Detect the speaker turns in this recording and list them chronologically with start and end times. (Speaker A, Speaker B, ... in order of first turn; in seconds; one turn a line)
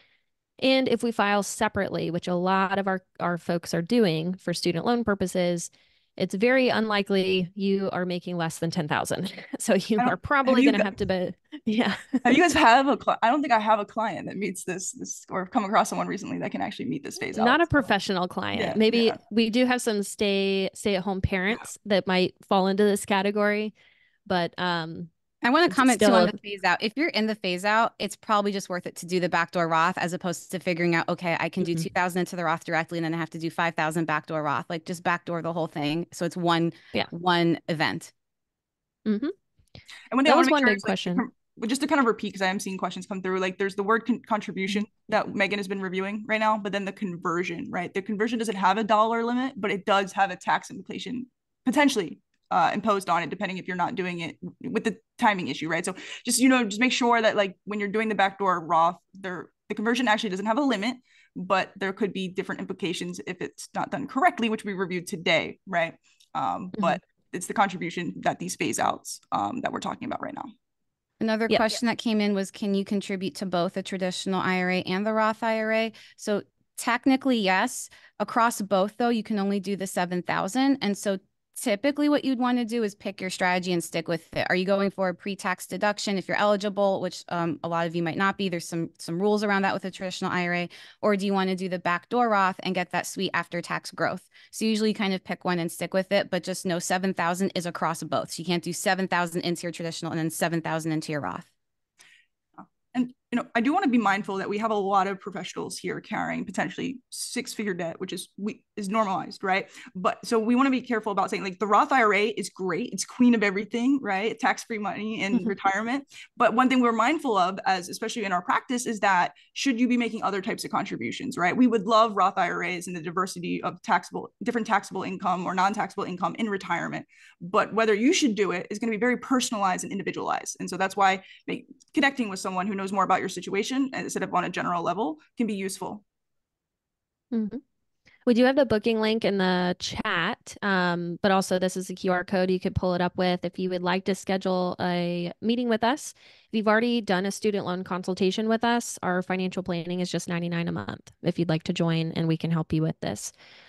Speaker A: 0.6-12.3
Speaker B: 10.0-10.9
Speaker B: 12.2-17.9
Speaker A: 17.4-23.7
Speaker B: 18.6-19.2
Speaker A: 24.3-25.1
Speaker C: 25.4-38.1
Speaker A: 25.7-26.4
Speaker A: 31.6-31.9
Speaker A: 39.1-39.3
Speaker B: 40.1-70.5
Speaker A: 40.2-41.3
Speaker C: 71.2-101.5
Speaker B: 102.6-136.0
Speaker A: 137.3-137.6
Speaker A: 138.3-153.3